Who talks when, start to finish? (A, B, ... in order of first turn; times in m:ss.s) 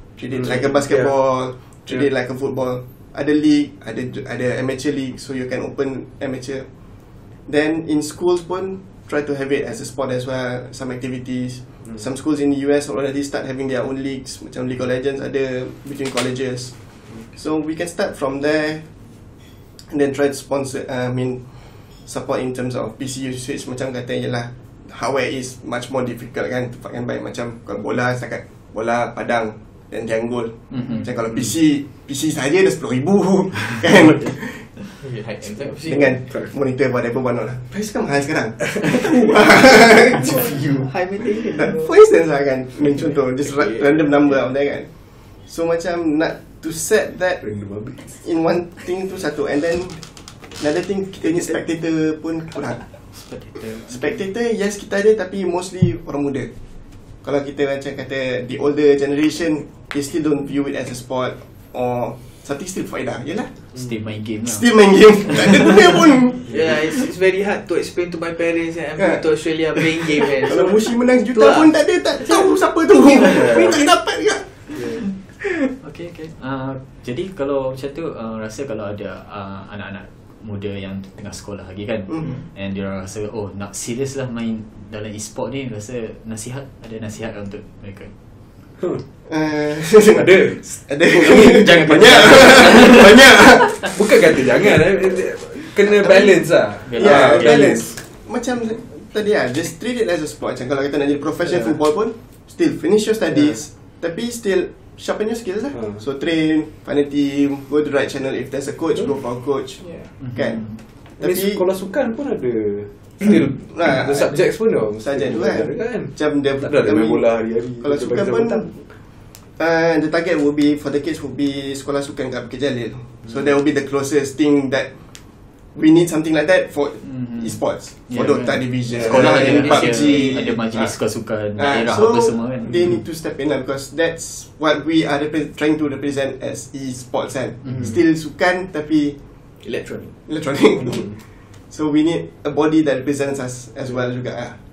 0:00.2-0:18.9 A
0:00.3-0:02.1 B
0:19.8-0:35.0 A
0:30.7-0:31.1 C
0:35.0-0:36.2 D
0:35.8-0:40.6 A
0:38.7-0:40.9 B
0:40.1-0:41.9 D
0:41.6-0:47.4 A
0:43.4-0:44.3 B
0:47.4-0:48.3 B
0:48.1-0:52.8 A
0:51.3-0:51.6 D
0:53.1-0:54.1 C
0:53.9-0:56.5 A
0:57.2-1:03.6 A
1:03.8-1:05.9 C
1:04.4-1:06.7 A
1:06.5-1:13.9 D
1:10.4-1:14.6 A
1:14.7-1:15.1 B
1:15.8-1:28.1 C
1:28.8-1:29.0 B
1:29.2-1:34.0 A
1:30.0-1:30.8 B
1:31.2-1:33.6 C
1:33.8-1:38.0 B
1:36.8-1:37.7 C
1:36.9-1:50.6 A
1:41.5-1:41.7 B
1:45.7-1:46.0 B
1:49.8-1:50.1 B
1:50.2-1:50.8 C
1:51.2-1:51.6 A
1:51.2-1:59.0 B
1:53.7-1:58.7 A
1:59.6-2:19.2 A
2:07.0-2:13.0 C
2:08.9-2:10.0 B
2:09.5-2:10.1 D
2:17.6-2:17.9 C
2:19.6-2:20.1 D
2:20.3-2:24.6 A